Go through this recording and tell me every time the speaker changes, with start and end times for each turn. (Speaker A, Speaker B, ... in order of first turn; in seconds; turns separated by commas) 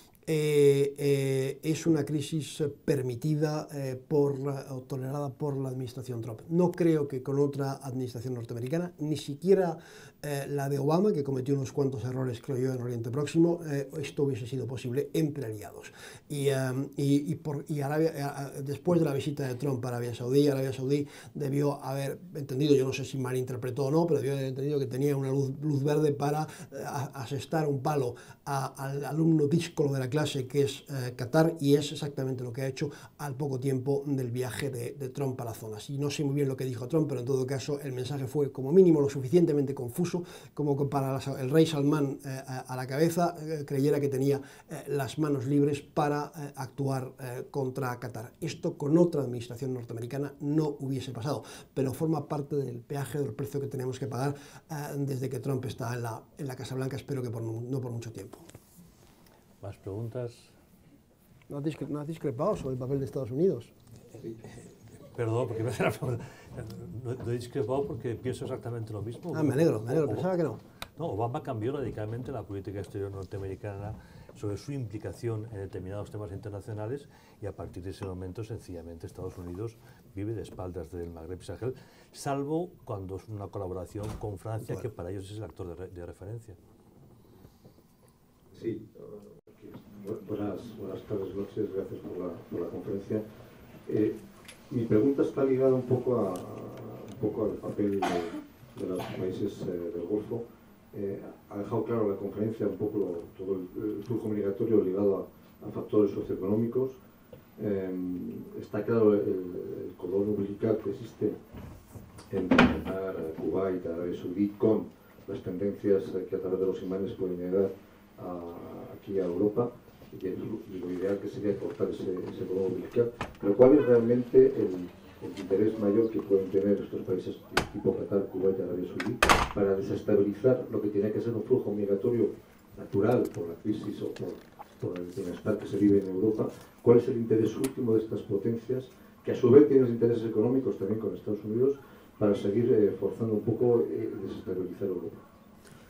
Speaker A: 0.2-58.5, Speaker B: 59.6-60.5, Speaker A: 61.5-63.7, Speaker B: 65.1-70.3, Speaker A: 69.3-70.6, Speaker B: 71.0-86.6, Speaker C: 88.5-93.2, Speaker C: 93.8-94.2, Speaker C: 94.7-107.0, Speaker C: 107.6-111.4, Speaker C: 112.3-145.2